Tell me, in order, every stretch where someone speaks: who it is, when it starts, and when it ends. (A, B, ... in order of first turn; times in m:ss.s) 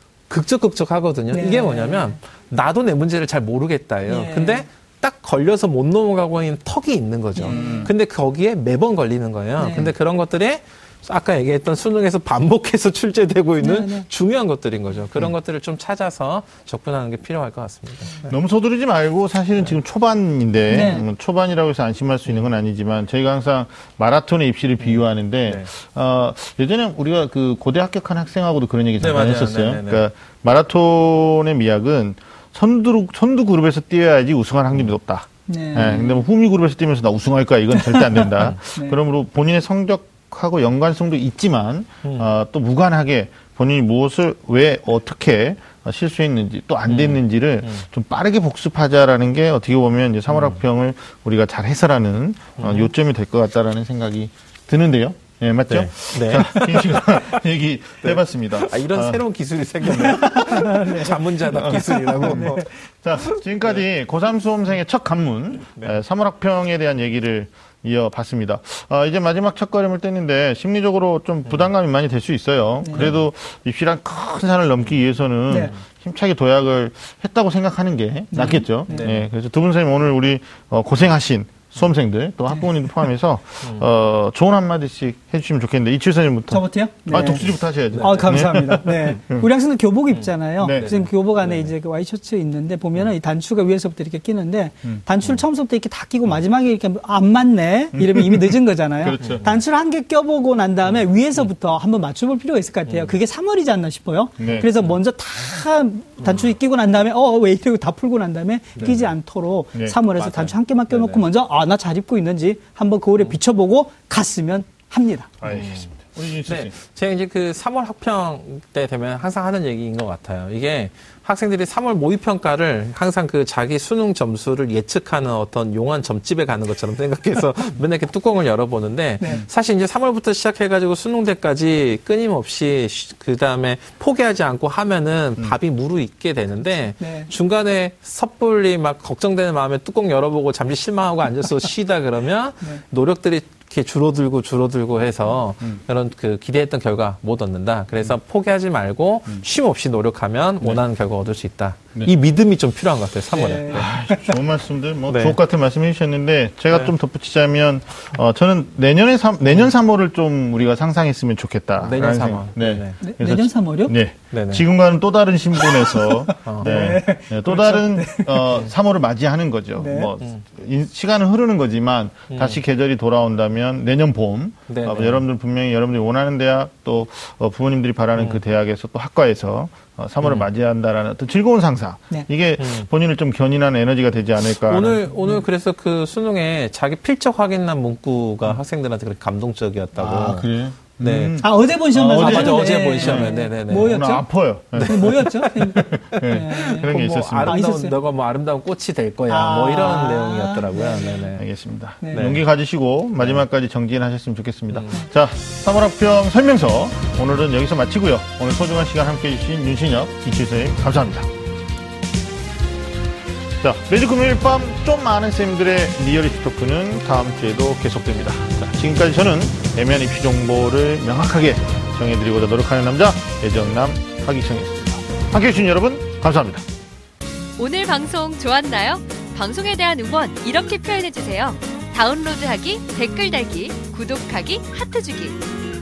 0:00.3-0:18.3 A
0:01.3-0:02.2 B
0:04.1-0:04.7 B
0:07.4-0:07.9 B
0:07.5-0:07.9 C
0:09.6-0:09.9 B
0:13.6-0:14.1 B
0:18.3-0:59.2 C
0:20.7-0:21.0 B
0:24.8-0:25.7 A
0:29.0-0:30.0 A
0:35.5-0:36.2 B
0:37.8-0:39.0 B
0:46.9-0:47.8 A
0:50.3-0:50.6 A
0:52.6-0:52.9 A
0:55.7-0:57.2 A
0:58.0-1:02.7 A
0:59.8-1:00.2 C
1:00.0-1:02.7 B
1:01.5-1:29.5 C
1:18.3-1:19.1 B
1:18.9-1:19.3 A
1:26.5-1:27.5 B
1:27.1-1:28.5 A
1:28.0-1:55.3 B
1:30.1-1:31.7 A
1:30.6-1:30.9 C
1:37.9-1:39.5 C
1:39.2-1:39.5 A
1:42.9-1:43.2 A
1:44.4-1:44.7 C
1:48.8-1:49.0 C
1:48.8-1:49.1 A
1:50.2-1:51.2 A
1:55.4-1:56.7 C
1:55.5-1:55.9 A
1:56.5-2:33.9 A
2:17.0-2:17.3 B
2:33.3-2:34.4 B
2:33.7-3:05.0 C
2:35.1-2:35.4 A
2:41.8-2:43.0 A
2:43.0-2:43.9 B
2:44.3-2:44.6 A
2:45.7-2:48.5 B
2:46.4-2:47.0 A
2:49.8-2:50.1 B
2:52.3-2:52.6 A
2:54.7-2:55.2 A
3:02.6-3:02.9 A
3:04.6-3:10.5 A
3:10.0-3:17.6 C
3:11.0-3:11.4 A
3:11.4-3:18.0 B
3:12.1-3:14.1 A
3:14.7-3:15.1 A
3:16.2-3:21.4 A
3:19.3-3:21.4 B
3:21.4-3:31.3 C
3:22.0-3:22.4 B
3:22.1-3:22.4 A
3:33.6-3:46.6 C
3:47.6-3:55.4 D